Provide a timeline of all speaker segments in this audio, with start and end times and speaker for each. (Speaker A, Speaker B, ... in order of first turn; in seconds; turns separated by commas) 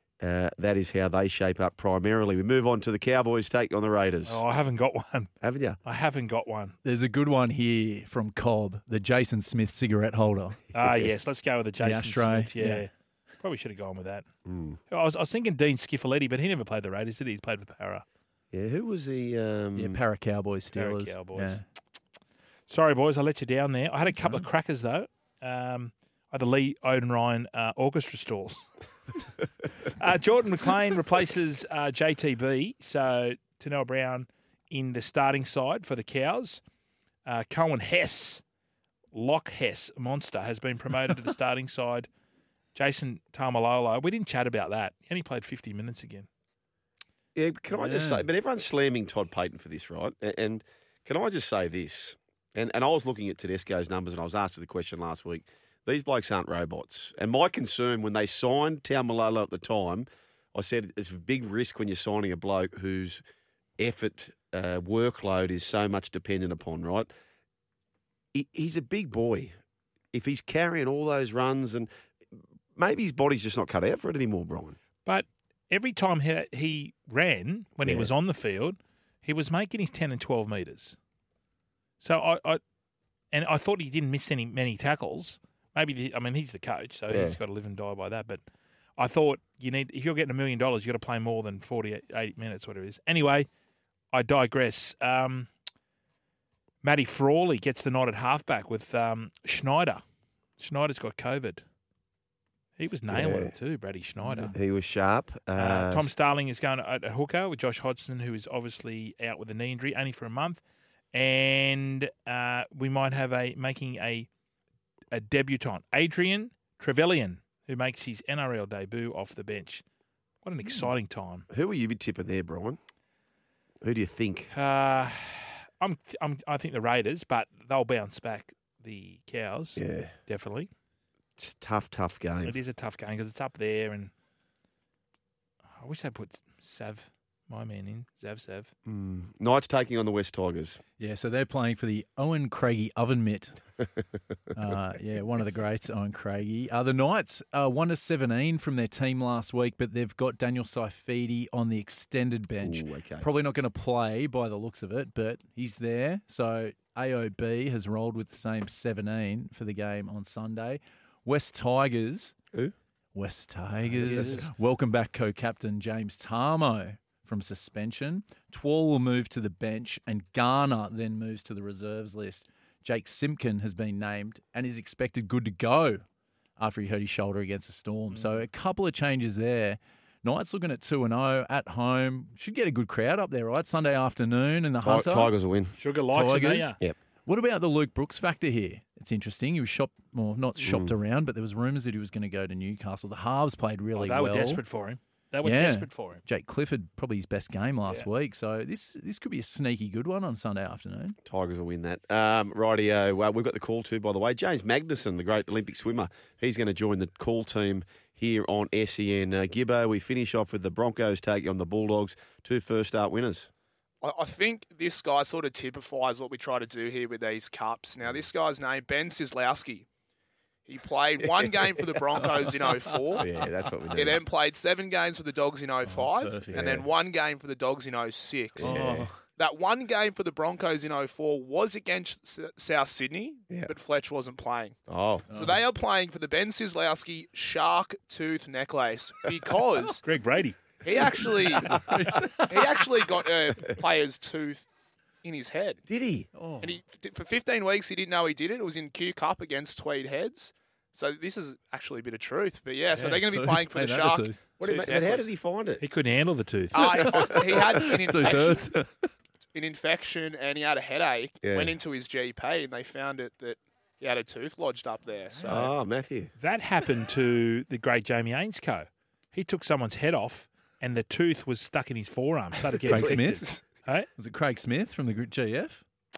Speaker A: 0.2-4.4, Speaker B: 4.2-5.3, Speaker A: 5.4-5.8, Speaker B: 5.8-6.8, Speaker C: 6.8-10.6, Speaker B: 10.7-14.2, Speaker A: 10.8-11.1, Speaker C: 11.8-12.8, Speaker A: 14.4-14.8, Speaker B: 14.9-18.0, Speaker A: 18.5-20.0, Speaker C: 19.7-21.6, Speaker B: 20.7-21.6, Speaker B: 22.7-28.6, Speaker C: 24.2-24.4, Speaker B: 29.9-36.6, Speaker B: 37.2-38.4, Speaker B: 39.1-42.1, Speaker B: 42.7-46.3, Speaker A: 47.3-63.2, Speaker C: 47.7-48.3, Speaker A: 63.8-67.1, Speaker A: 68.3-69.5, Speaker A: 70.1-71.9, Speaker A: 72.7-74.8, Speaker B: 75.0-81.0, Speaker A: 77.8-78.1, Speaker B: 82.0-82.6, Speaker B: 83.3-88.4, Speaker A: 87.1-87.4, Speaker B: 89.0-93.5, Speaker B: 94.1-95.5, Speaker B: 96.8-100.0, Speaker B: 100.6-101.6, Speaker B: 102.8-104.5, Speaker A: 103.1-103.5, Speaker C: 104.2-104.6, Speaker A: 104.4-106.1, Speaker B: 105.5-110.6, Speaker B: 111.1-114.3, Speaker B: 115.1-119.8, Speaker B: 120.4-121.5, Speaker A: 121.5-122.8, Speaker A: 123.8-124.5, Speaker B: 124.5-130.7, Speaker A: 129.8-130.1, Speaker A: 131.4-132.6, Speaker B: 132.4-134.1, Speaker B: 135.8-138.7, Speaker A: 138.8-140.8, Speaker C: 141.0-143.6, Speaker C: 144.5-162.3, Speaker A: 152.6-153.2, Speaker C: 163.1-176.0, Speaker A: 163.9-164.4, Speaker B: 164.0-164.4, Speaker C: 176.6-185.3, Speaker B: 178.1-178.4, Speaker A: 184.8-185.8, Speaker B: 185.8-186.8, Speaker C: 186.1-194.6, Speaker A: 190.6-190.9, Speaker B: 193.9-196.2, Speaker C: 195.4-201.2, Speaker A: 201.2-213.5, Speaker D: 214.0-219.9, Speaker D: 220.7-223.3, Speaker A: 223.2-224.2, Speaker D: 223.9-234.8, Speaker C: 225.8-226.8, Speaker A: 226.5-226.8, Speaker A: 228.6-229.1, Speaker C: 228.6-229.2, Speaker A: 234.9-235.3, Speaker C: 235.3-235.6, Speaker D: 235.3-240.0, Speaker B: 240.0-240.6, Speaker D: 240.8-241.8, Speaker C: 241.1-242.8, Speaker D: 242.5-244.7, Speaker D: 245.2-245.8, Speaker A: 245.9-246.3, Speaker C: 246.3-246.8, Speaker D: 246.6-255.3, Speaker C: 252.9-254.4, Speaker A: 254.6-255.8, Speaker B: 255.8-256.8, Speaker D: 256.7-258.7, Speaker C: 256.8-259.1, Speaker D: 259.5-265.7, Speaker A: 261.4-261.7, Speaker A: 265.5-266.3, Speaker B: 266.4-274.1, Speaker C: 272.9-273.5, Speaker D: 273.0-273.6, Speaker C: 274.1-275.8